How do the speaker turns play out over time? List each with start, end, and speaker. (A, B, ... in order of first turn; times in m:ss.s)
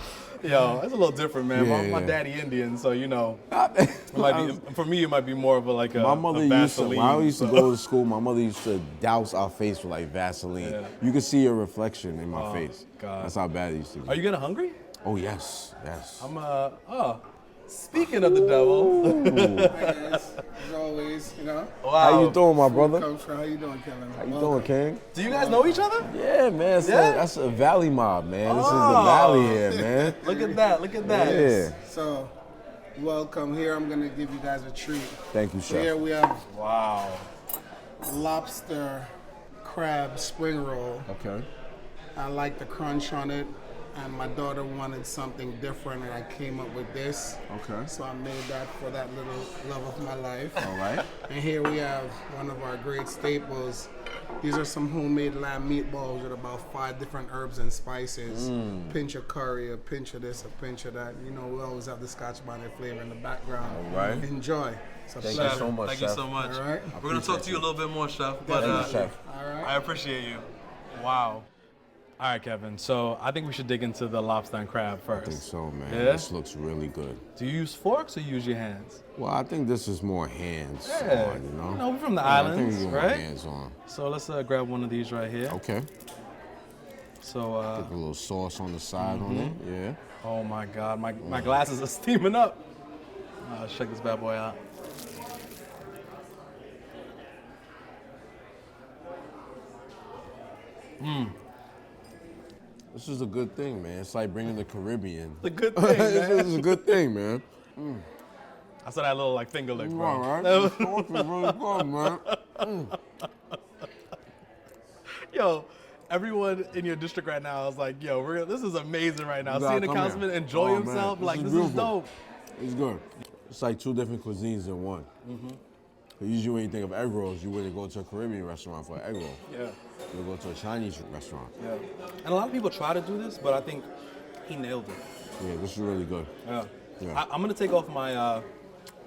0:00.4-0:03.4 A
0:00.5-0:00.8 B
0:01.5-0:02.2 B
0:03.5-0:04.6 B
0:04.1-0:07.7 A
0:05.9-0:14.2 B
0:10.6-0:10.9 A
0:12.3-0:13.4 A
0:14.0-0:14.8 A
0:15.0-0:16.3 B
0:16.2-0:20.4 A
0:18.0-0:19.8 B
0:19.7-0:21.7 C
0:21.8-0:22.4 A
0:22.0-0:23.1 B
0:22.5-0:25.9 C
0:24.2-0:25.0 B
0:25.1-0:26.1 A
0:26.0-0:30.2 B
0:26.8-0:27.3 A
0:28.4-0:31.7 A
0:29.6-0:32.3 C
0:31.0-0:31.8 B
0:33.0-0:36.4 C
0:35.3-0:35.9 B
0:36.5-0:37.3 A
0:38.0-0:39.1 C
0:39.6-0:41.1 C
0:41.1-0:41.5 B
0:42.2-1:05.8 C
0:47.5-0:47.9 B
0:50.6-0:51.1 B
0:58.3-0:59.0 B
1:03.7-1:04.3 B
1:03.9-1:04.2 A
1:05.2-1:06.3 B
1:05.2-1:09.1 A
1:06.4-1:07.0 C
1:06.9-1:07.7 B
1:08.4-1:09.8 C
1:08.5-1:09.2 B
1:09.6-1:11.5 A
1:12.2-1:16.3 A
1:15.1-1:17.2 B
1:17.4-1:19.0 A
1:19.2-1:23.8 B
1:20.8-1:23.3 A
1:23.9-1:25.6 A
1:25.5-1:25.9 B
1:27.2-1:27.9 A
1:27.8-1:30.0 B
1:29.0-1:29.6 A
1:30.2-1:32.6 A
1:31.2-1:31.6 B
1:33.4-1:34.6 A
1:41.0-1:41.4 A
1:42.9-1:48.0 B
1:45.4-1:46.8 A
1:48.8-1:53.0 A
1:49.7-1:52.9 B
1:55.3-2:02.1 A
1:59.4-2:02.0 B
2:02.6-2:05.1 B
2:05.2-2:05.6 A
2:06.2-2:09.4 B
2:09.5-2:09.8 A
2:10.1-2:11.5 B
2:11.6-2:13.9 A
2:14.4-2:15.0 A
2:15.4-2:16.3 B
2:16.4-2:18.5 A